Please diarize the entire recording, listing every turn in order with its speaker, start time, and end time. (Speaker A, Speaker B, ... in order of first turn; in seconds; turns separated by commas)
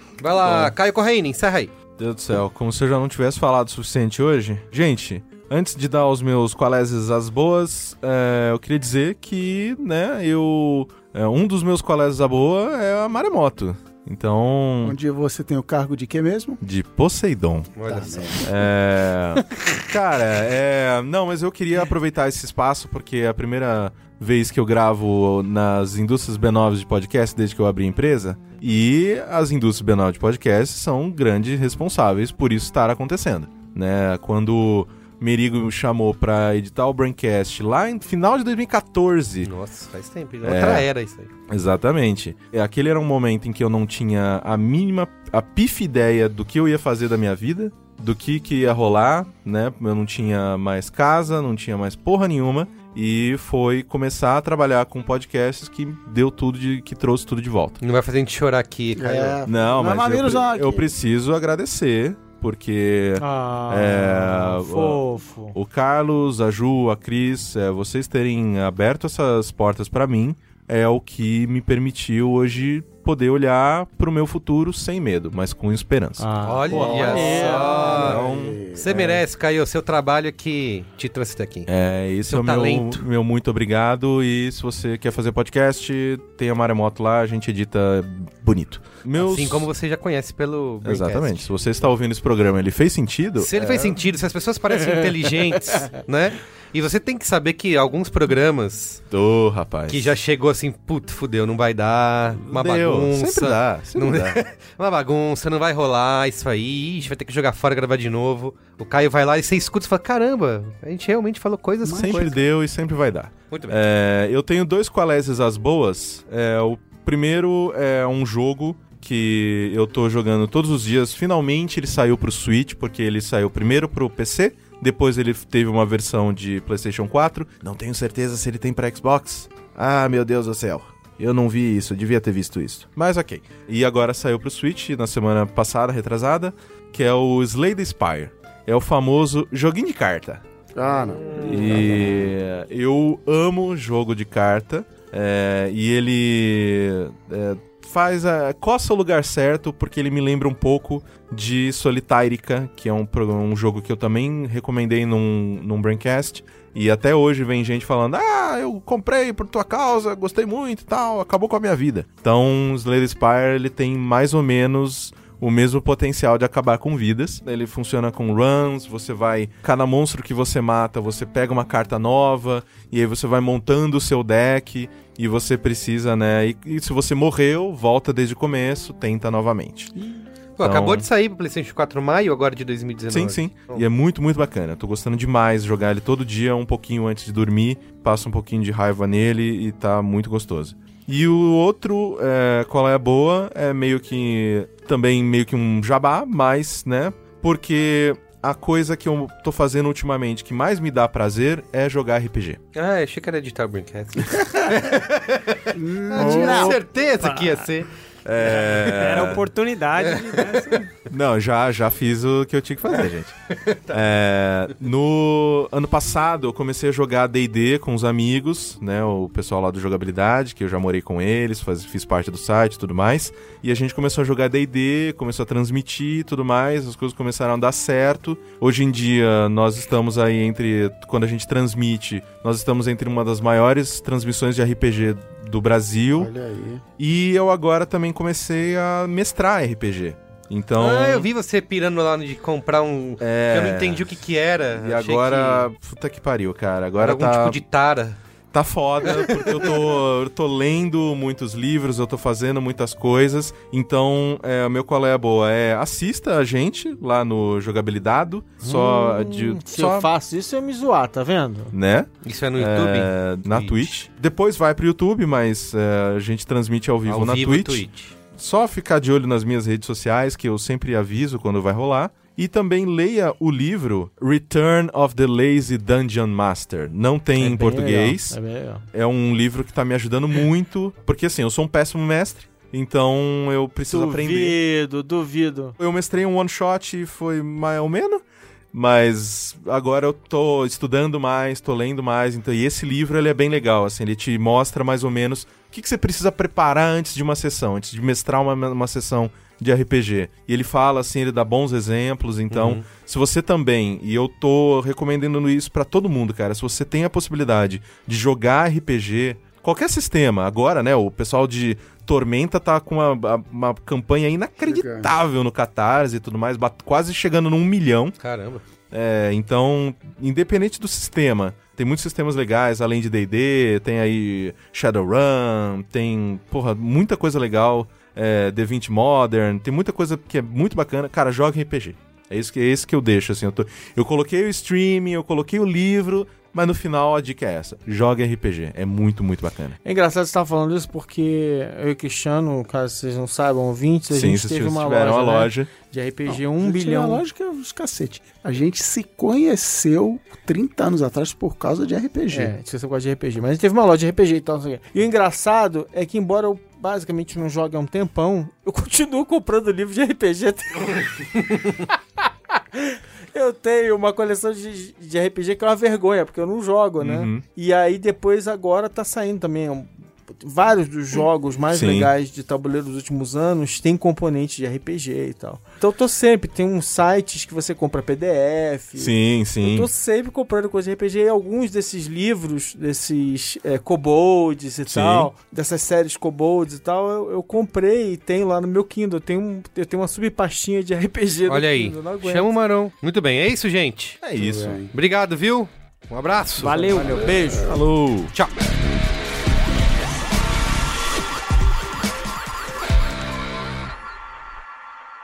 Speaker A: 0.2-1.7, Speaker B: 0.4-0.7, Speaker B: 2.0-15.0, Speaker C: 14.8-16.6, Speaker B: 16.6-17.7, Speaker A: 17.7-18.4, Speaker C: 17.8-18.6, Speaker B: 18.4-39.5, Speaker A: 39.4-41.3, Speaker B: 40.4-40.9, Speaker B: 41.5-57.8, Speaker A: 57.8-59.4, Speaker C: 58.9-60.9, Speaker B: 59.5-77.2, Speaker D: 63.2-65.5, Speaker D: 76.2-78.1, Speaker A: 76.4-78.2, Speaker C: 76.7-79.0, Speaker B: 77.9-79.2, Speaker A: 78.7-81.7, Speaker B: 81.7-89.7, Speaker A: 82.3-83.0, Speaker A: 89.2-91.5, Speaker B: 90.8-94.0, Speaker A: 93.4-99.0, Speaker D: 94.8-95.8, Speaker B: 99.1-100.1, Speaker A: 99.9-112.4, Speaker B: 102.5-104.4, Speaker B: 111.8-140.4, Speaker A: 113.5-113.8, Speaker C: 140.7-142.3, Speaker A: 141.1-141.8, Speaker B: 141.3-179.9, Speaker A: 180.6-183.5, Speaker B: 180.6-181.1, Speaker B: 183.1-202.6, Speaker A: 202.7-209.3, Speaker C: 205.7-206.8, Speaker B: 206.2-206.7, Speaker E: 207.2-207.7, Speaker B: 208.2-209.5, Speaker E: 208.9-210.9, Speaker A: 210.0-210.8, Speaker B: 211.1-213.3, Speaker A: 213.5-213.9, Speaker B: 213.9-236.3, Speaker C: 236.2-236.8, Speaker B: 237.0-241.3, Speaker A: 240.8-245.7, Speaker B: 243.2-244.2, Speaker B: 244.7-247.6, Speaker A: 247.0-248.2, Speaker B: 248.5-260.1, Speaker A: 249.0-249.7, Speaker D: 258.6-261.7, Speaker B: 261.7-278.4, Speaker A: 262.2-264.0, Speaker A: 267.1-268.1, Speaker D: 277.4-278.8, Speaker B: 278.9-284.6, Speaker D: 283.9-285.8, Speaker B: 285.8-318.1, Speaker A: 302.5-302.9, Speaker C: 314.6-315.1, Speaker A: 318.2-318.6, Speaker B: 318.9-339.8, Speaker D: 339.8-347.2, Speaker B: 344.1-345.7, Speaker C: 346.3-352.5, Speaker D: 352.3-392.6, Speaker B: 367.0-367.4, Speaker B: 371.7-372.1, Speaker B: 379.0-379.9, Speaker B: 384.9-385.3, Speaker A: 391.5-394.2, Speaker B: 394.2-394.9, Speaker C: 394.4-394.9, Speaker A: 394.9-397.3, Speaker E: 396.6-397.3, Speaker D: 396.8-397.8, Speaker B: 397.6-398.3